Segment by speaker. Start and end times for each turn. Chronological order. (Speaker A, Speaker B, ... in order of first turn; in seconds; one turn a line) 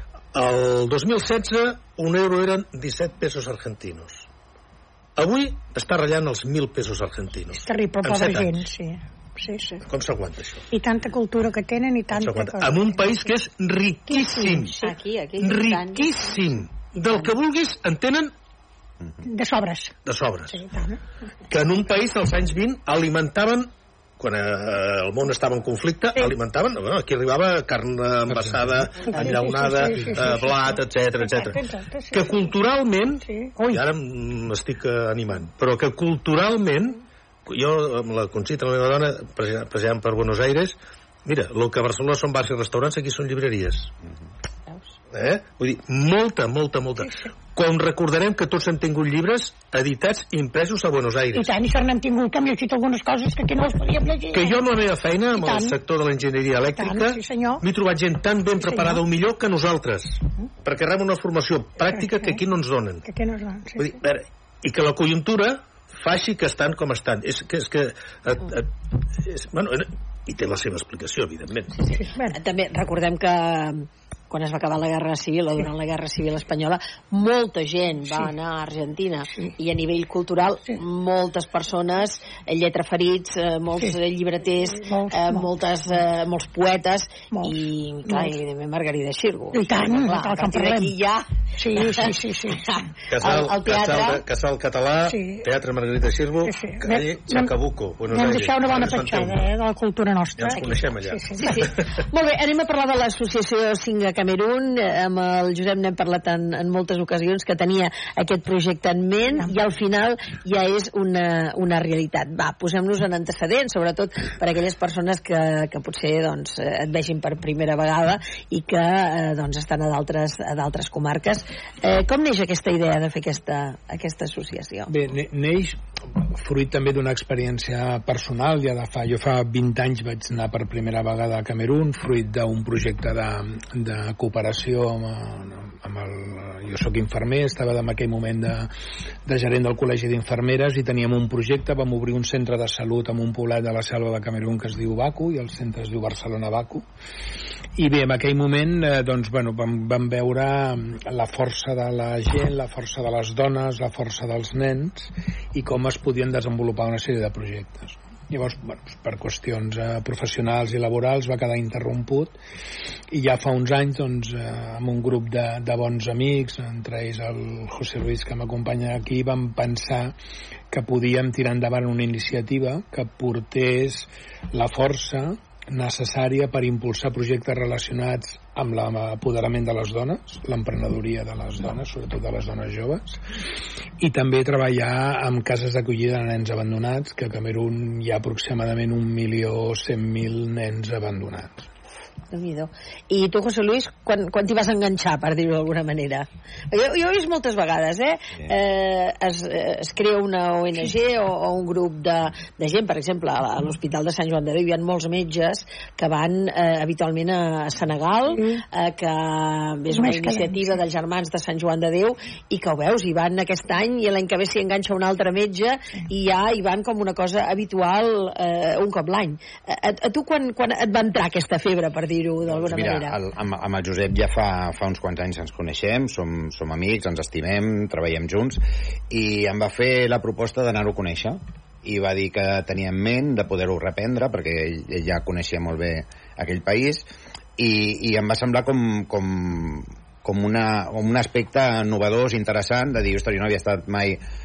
Speaker A: 0.3-4.2
Speaker A: 5.2-8.6
Speaker B: 7.5-9.8
Speaker A: 9.8-10.7
Speaker B: 10.7-13.3
Speaker A: 12.1-14.8
Speaker B: 14.1-14.9
Speaker C: 14.8-16.4
Speaker A: 15.4-18.3
Speaker B: 19.2-21.0
Speaker A: 20.1-20.6
Speaker A: 21.5-43.9
Speaker D: 28.3-28.8
Speaker B: 29.0-32.6
Speaker B: 33.2-33.8
Speaker A: 45.1-51.5
Speaker B: 51.3-54.6
Speaker A: 54.3-63.0
Speaker B: 55.3-55.8
Speaker B: 56.8-57.6
Speaker B: 58.6-59.0
Speaker B: 61.9-62.4
Speaker B: 63.0-64.0
Speaker A: 63.8-71.8
Speaker C: 71.8-91.2
Speaker B: 72.0-72.4
Speaker B: 84.7-85.5
Speaker B: 87.3-88.4
Speaker B: 89.5-90.9
Speaker B: 91.5-92.9
Speaker C: 91.8-92.1
Speaker A: 93.1-99.5
Speaker C: 93.2-94.2
Speaker B: 95.0-95.5
Speaker B: 96.4-97.5
Speaker B: 98.1-101.7
Speaker A: 100.4-101.8
Speaker C: 101.4-124.9
Speaker D: 124.9-125.8
Speaker D: 126.3-138.7
Speaker D: 139.2-146.8
Speaker D: 147.8-162.3
Speaker D: 163.1-170.1
Speaker D: 170.7-183.2
Speaker D: 184.0-191.7
Speaker C: 192.3-223.2
Speaker B: 208.3-208.6
Speaker B: 209.9-210.6
Speaker E: 222.5-237.1
Speaker E: 237.6-244.2